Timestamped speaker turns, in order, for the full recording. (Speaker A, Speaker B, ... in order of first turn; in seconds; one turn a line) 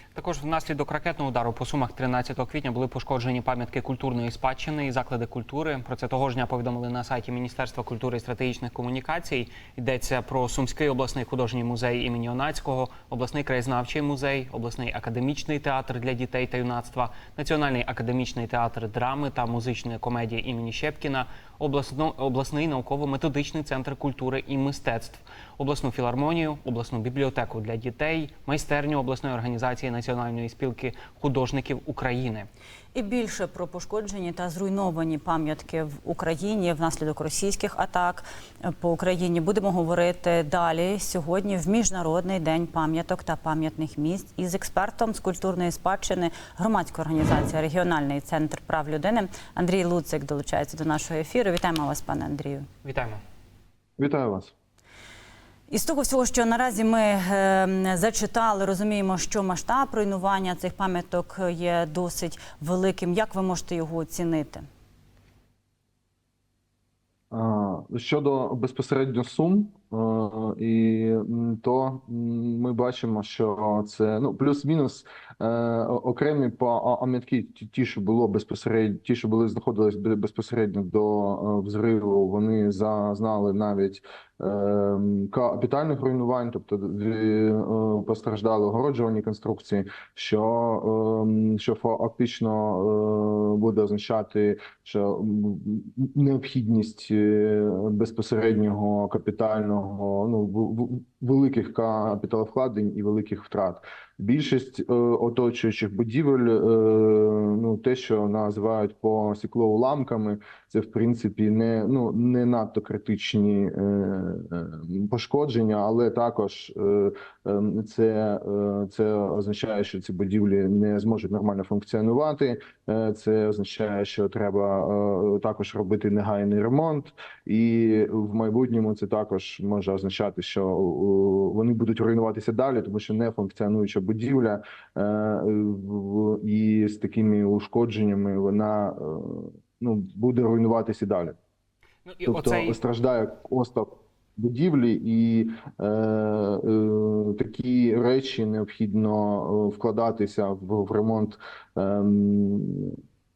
Speaker A: 0.1-32.5
Speaker B: 32.9-52.7
Speaker A: 52.8-53.2
Speaker C: 54.0-54.5
Speaker B: 55.7-64.6
Speaker C: 67.3-141.3
Speaker A: 142.1-142.8
Speaker C: 142.2-152.9